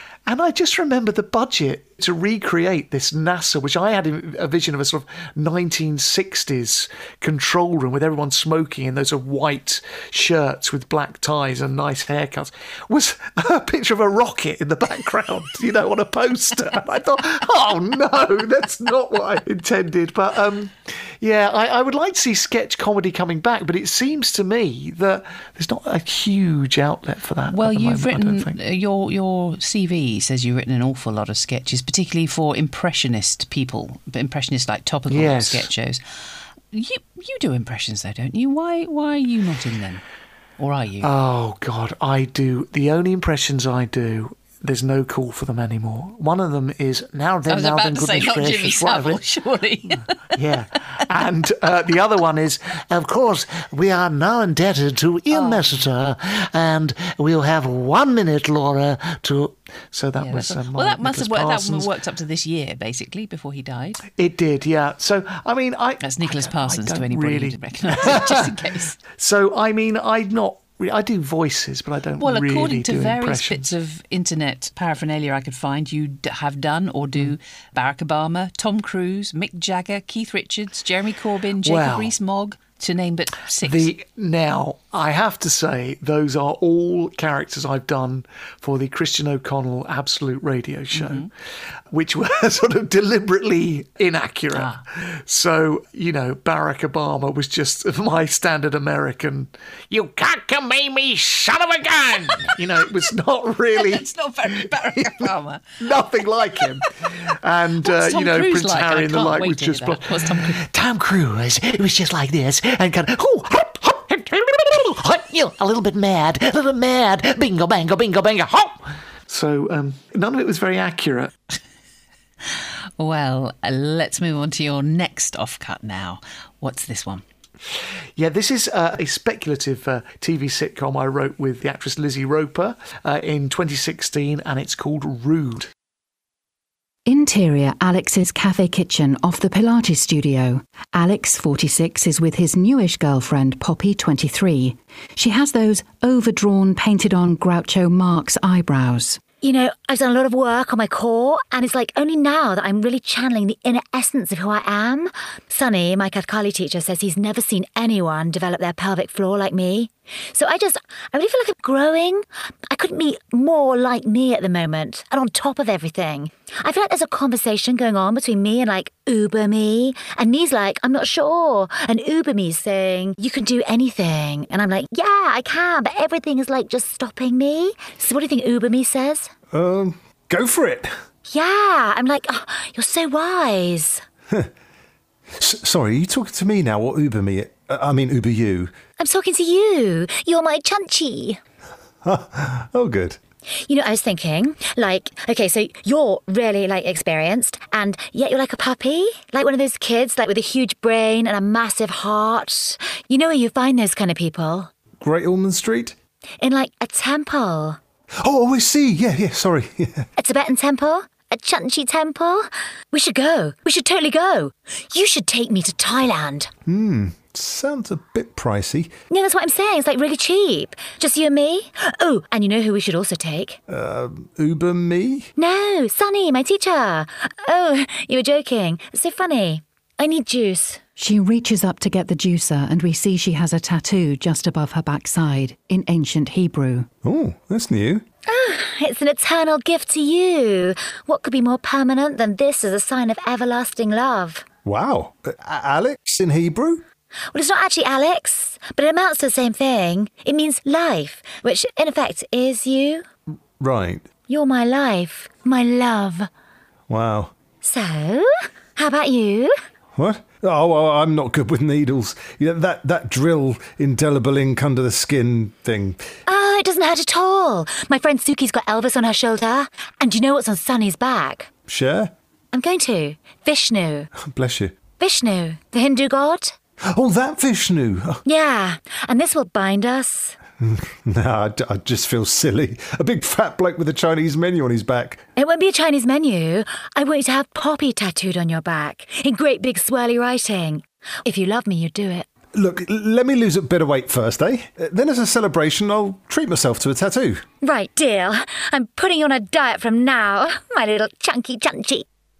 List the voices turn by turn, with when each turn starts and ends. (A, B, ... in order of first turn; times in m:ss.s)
0:00.3-0:28.6 A
0:27.5-0:36.0 B
0:35.1-0:35.7 A
0:36.7-0:40.0 B
0:40.6-0:41.1 B
0:41.0-0:49.2 A
0:47.5-0:50.3 B
0:50.3-1:01.9 A
0:55.3-0:55.8 B
1:00.2-1:04.0 B
1:04.2-1:08.6 A
1:06.0-1:09.0 B
1:09.1-1:13.7 A
1:12.2-1:23.9 B
1:21.6-1:22.1 A
1:23.6-1:31.3 A
1:30.9-1:31.3 B
1:31.9-1:44.1 A
1:34.5-1:34.8 B
1:43.7-1:45.8 B
1:45.0-1:45.3 A
1:45.8-2:01.4 A
1:47.8-1:50.7 B
2:03.0-2:07.2 B
2:08.2-2:15.7 A
2:17.1-2:29.2 C
2:29.4-2:59.3 D
2:59.5-3:01.0 E
3:01.3-3:04.0 D
3:05.4-3:08.7 E
3:09.0-3:11.4 D
3:12.0-3:13.2 E
3:13.6-3:24.7 D
3:25.0-3:26.0 E
3:26.4-3:27.8 D
3:28.2-3:30.1 E
3:30.2-3:36.5 D
3:36.7-3:38.9 E
3:39.1-3:43.6 D
3:43.7-3:45.3 E
3:45.4-3:50.8 D
3:51.0-3:56.9 C
3:57.0-3:58.0 E
3:58.3-4:04.5 D
4:04.6-4:06.8 E
4:07.3-4:13.1 D
4:13.6-4:14.1 E
4:14.3-4:16.3 D
4:16.9-4:17.3 E
4:17.6-4:19.6 D
4:20.0-4:26.0 E
4:26.3-4:31.5 D
4:31.7-4:32.1 E
4:32.5-4:34.1 D
4:34.2-4:34.8 E
4:35.0-4:36.6 D
4:36.9-4:38.2 E
4:38.2-4:40.4 D
4:40.6-4:45.2 E
4:45.4-4:52.3 D
4:52.5-4:57.4 E
4:57.6-5:02.0 D